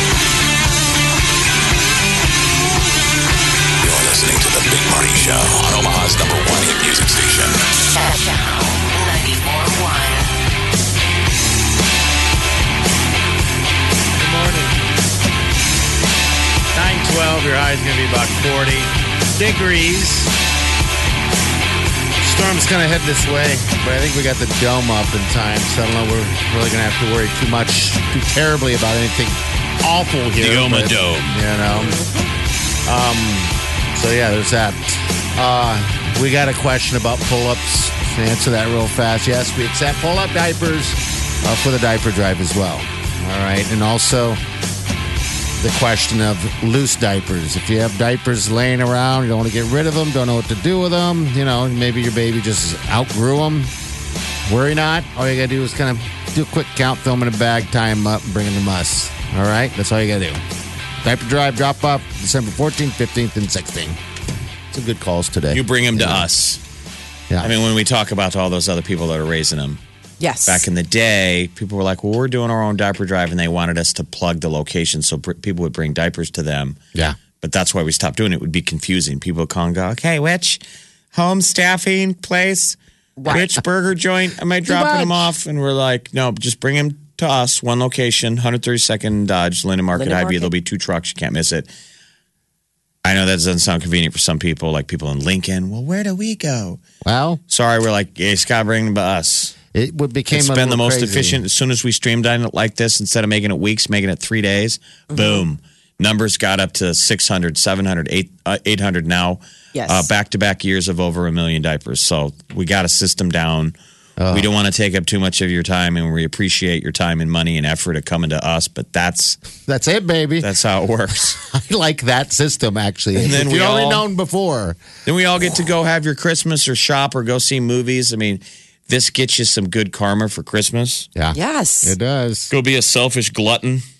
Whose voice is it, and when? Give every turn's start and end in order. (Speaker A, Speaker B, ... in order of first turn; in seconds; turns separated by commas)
Speaker A: 3.8-7.7, Speaker B: 7.9-10.2, Speaker C: 14.2-14.8, Speaker C: 16.7-20.3, Speaker C: 22.2-32.0, Speaker D: 30.4-31.4, Speaker E: 31.7-32.3, Speaker C: 32.9-44.4, Speaker C: 45.6-53.7, Speaker C: 54.5-60.4, Speaker C: 61.0-64.0, Speaker C: 64.7-66.3, Speaker D: 65.5-66.6, Speaker D: 67.4-69.8, Speaker E: 70.2-70.7, Speaker D: 70.5-76.8, Speaker D: 77.4-80.6, Speaker D: 81.1-91.7, Speaker E: 83.2-83.5, Speaker C: 84.7-85.3, Speaker E: 89.9-90.5, Speaker D: 93.0-96.8, Speaker C: 97.0-97.4, Speaker D: 97.5-99.5, Speaker C: 99.7-101.4, Speaker D: 100.3-113.8, Speaker E: 105.1-105.4, Speaker E: 109.7-110.1, Speaker C: 114.2-114.5, Speaker D: 114.3-119.4, Speaker C: 119.7-120.5, Speaker D: 120.4-121.4, Speaker C: 121.4-124.8, Speaker D: 123.2-124.1, Speaker D: 125.0-131.1, Speaker C: 131.2-132.5, Speaker E: 131.3-131.9, Speaker D: 132.5-133.8